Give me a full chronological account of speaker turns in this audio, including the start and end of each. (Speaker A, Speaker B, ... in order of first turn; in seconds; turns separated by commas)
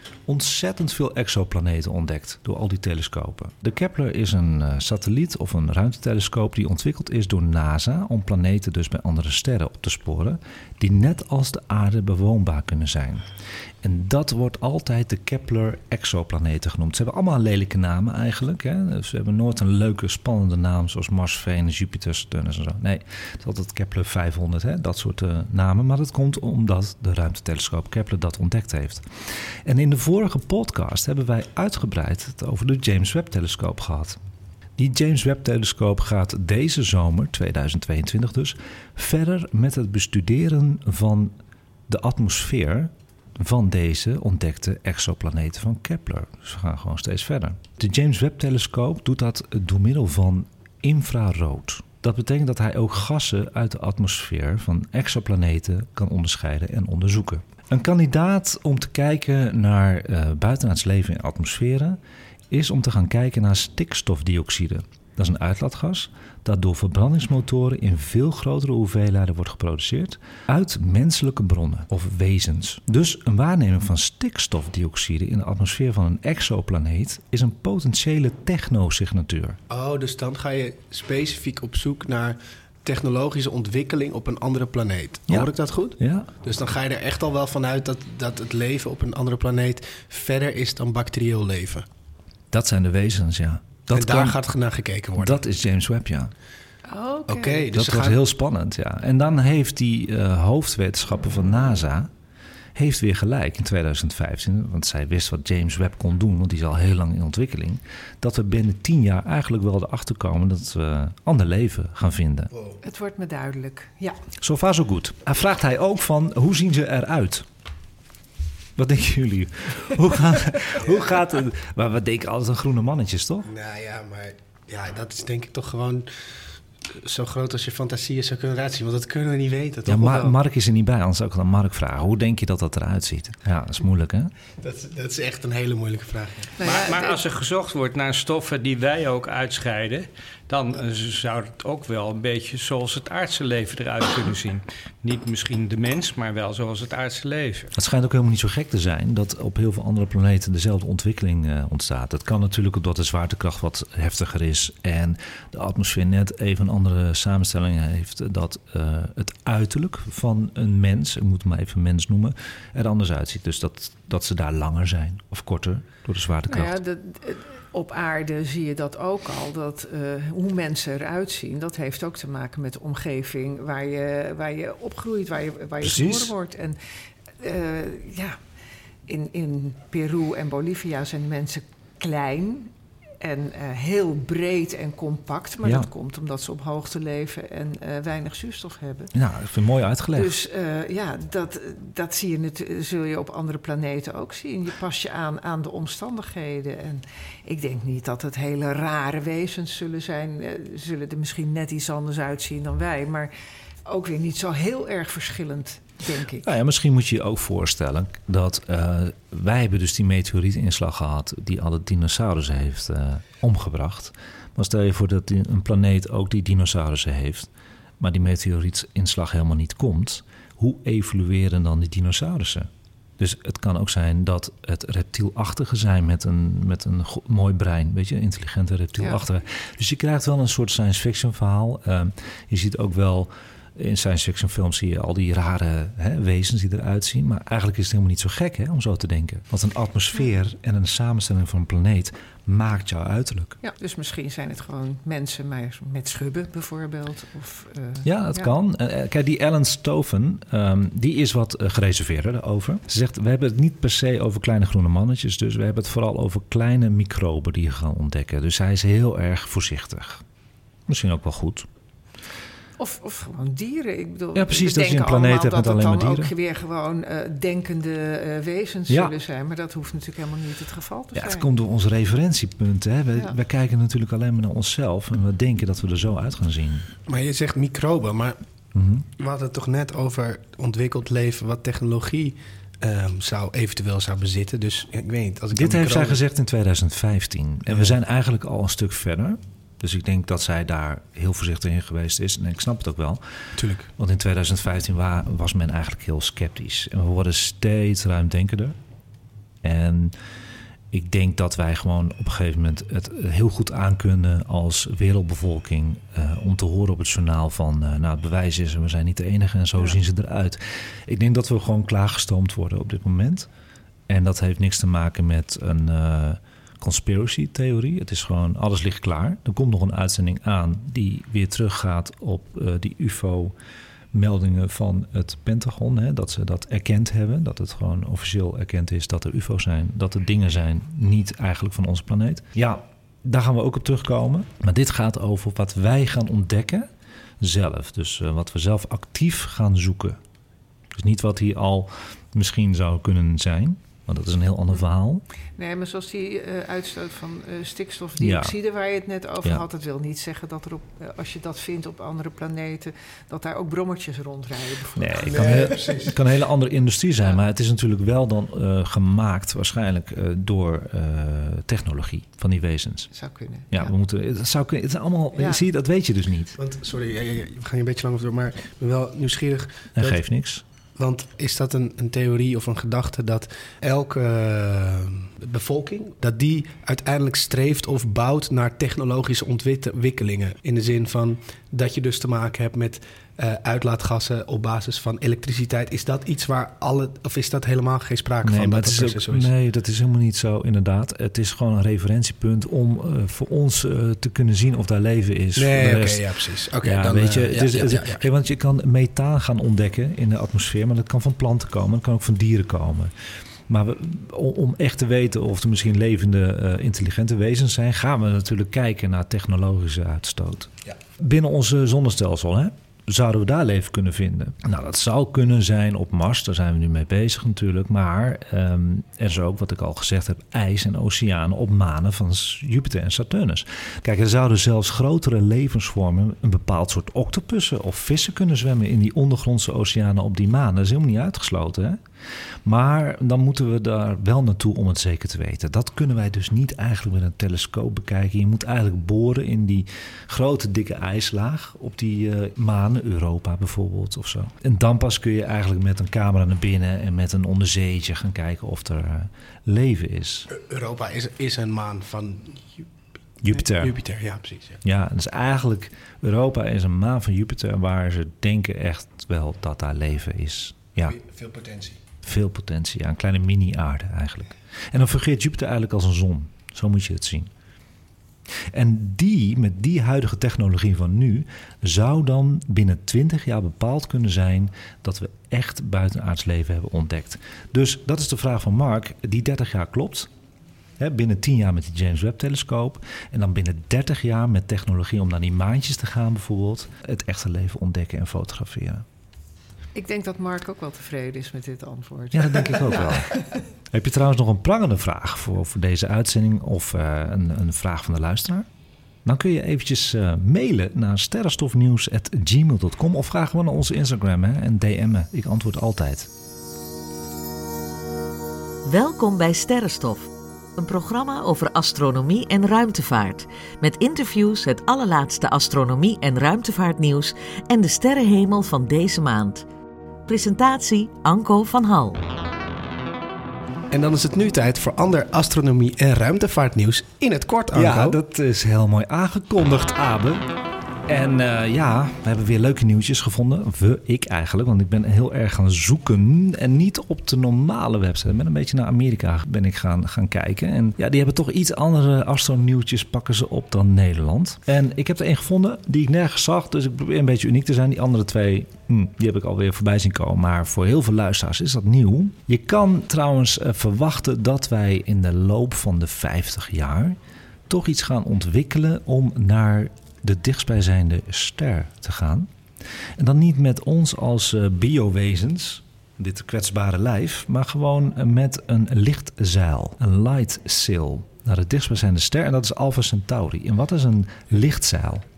Speaker A: 0.2-13.3, Speaker A: 13.8-29.0, Speaker A: 29.6-34.2, Speaker A: 34.8-41.3, Speaker A: 41.9-62.0, Speaker A: 62.5-79.6, Speaker B: 79.7-91.9, Speaker A: 85.3-86.3, Speaker A: 92.5-94.4, Speaker B: 93.9-95.4, Speaker A: 95.2-96.3, Speaker C: 96.9-97.7, Speaker B: 97.3-98.2, Speaker A: 97.7-102.1, Speaker A: 102.7-112.5, Speaker B: 112.5-112.8, Speaker C: 112.8-114.2, Speaker A: 114.4-117.5, Speaker A: 118.8-123.5, Speaker B: 120.8-121.1, Speaker B: 123.4-126.3, Speaker B: 126.9-130.4, Speaker A: 129.8-134.3, Speaker B: 134.6-136.5, Speaker C: 136.6-137.2, Speaker D: 136.6-147.7, Speaker A: 147.7-166.8, Speaker C: 166.5-176.8, Speaker A: 175.8-176.3, Speaker C: 177.4-178.4, Speaker C: 179.1-189.1, Speaker A: 189.1-190.4, Speaker C: 190.1-203.3, Speaker C: 203.8-206.5, Speaker A: 206.4-243.6, Speaker C: 243.6-248.5, Speaker A: 248.0-260.2, Speaker A: 260.9-261.7, Speaker C: 262.8-271.5, Speaker A: 264.3-266.3, Speaker A: 268.9-269.1, Speaker A: 271.1-276.9, Speaker B: 277.1-278.4, Speaker A: 278.7-279.1, Speaker B: 279.2-286.2, Speaker A: 285.5-293.2, Speaker B: 287.7-287.9, Speaker B: 293.6-293.9, Speaker A: 294.0-298.8, Speaker A: 299.6-300.1, Speaker A: 300.9-313.5, Speaker A: 314.1-323.5, Speaker A: 324.1-336.9, Speaker A: 337.4-340.2, Speaker A: 340.9-345.2, Speaker C: 345.6-355.6, Speaker A: 348.2-348.5, Speaker A: 354.9-363.1, Speaker B: 355.2-356.1, Speaker C: 363.1-363.9, Speaker A: 363.7-366.6, Speaker C: 365.4-365.6, Speaker B: 366.6-370.2, Speaker A: 369.9-370.6, Speaker B: 370.9-389.5, Speaker A: 388.4-403.1, Speaker B: 395.6-398.2, Speaker A: 403.7-432.0, Speaker A: 432.6-450.5, Speaker B: 450.5-452.9, Speaker A: 453.4-453.9, Speaker B: 453.6-454.8, Speaker A: 454.8-461.2, Speaker B: 461.0-462.0, Speaker A: 462.2-467.5, Speaker A: 468.7-480.3, Speaker A: 481.0-489.0, Speaker C: 489.9-493.4, Speaker A: 492.3-493.4, Speaker A: 493.9-498.7, Speaker A: 499.2-506.3, Speaker E: 508.9-519.6, Speaker E: 520.3-522.2, Speaker B: 523.9-528.2, Speaker A: 527.7-530.5, Speaker A: 531.1-562.5, Speaker A: 563.2-575.2